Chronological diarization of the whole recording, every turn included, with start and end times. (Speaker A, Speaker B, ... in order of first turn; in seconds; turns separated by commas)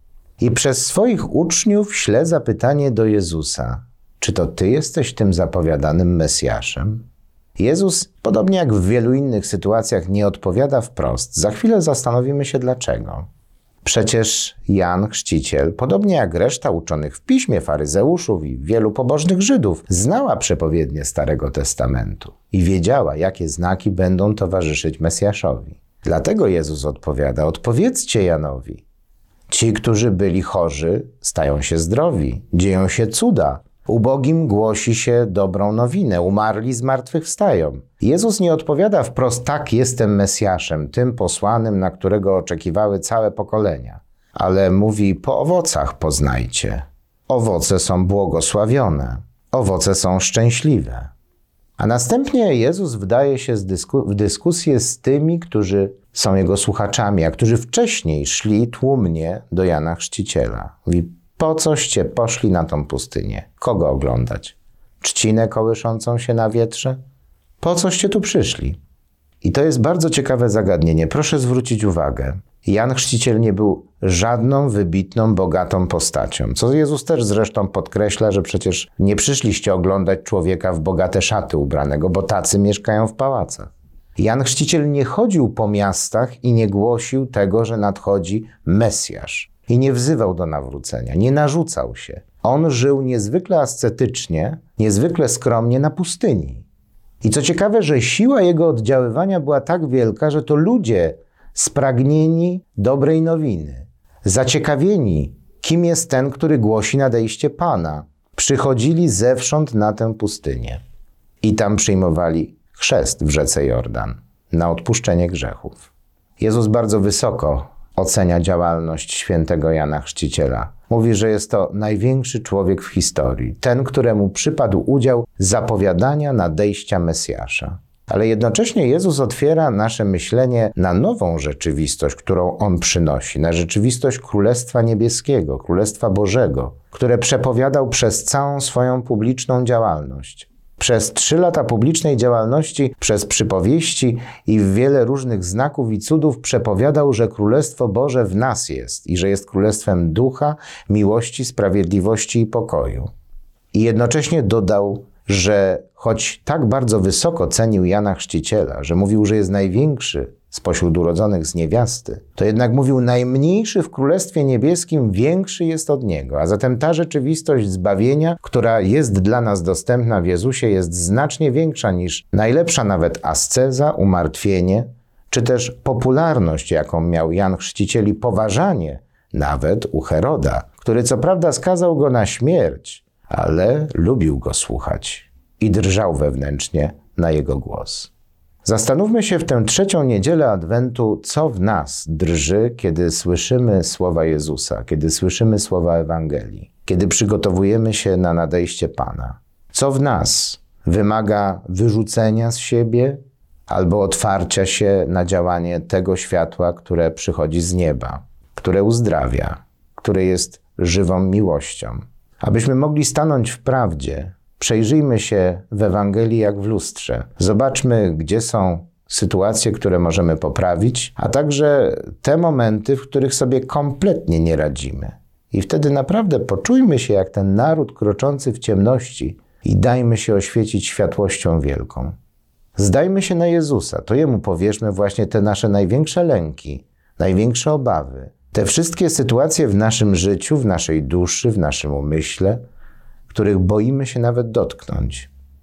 Speaker A: 0.4-7.0, Speaker A: 7.6-13.2, Speaker A: 13.8-28.8, Speaker A: 29.5-51.1, Speaker A: 51.8-67.0, Speaker A: 67.6-68.8, Speaker A: 69.4-96.7, Speaker A: 97.2-110.8, Speaker A: 111.4-153.1, Speaker A: 153.7-188.1, Speaker A: 188.6-232.1, Speaker A: 232.8-242.6, Speaker A: 243.3-245.3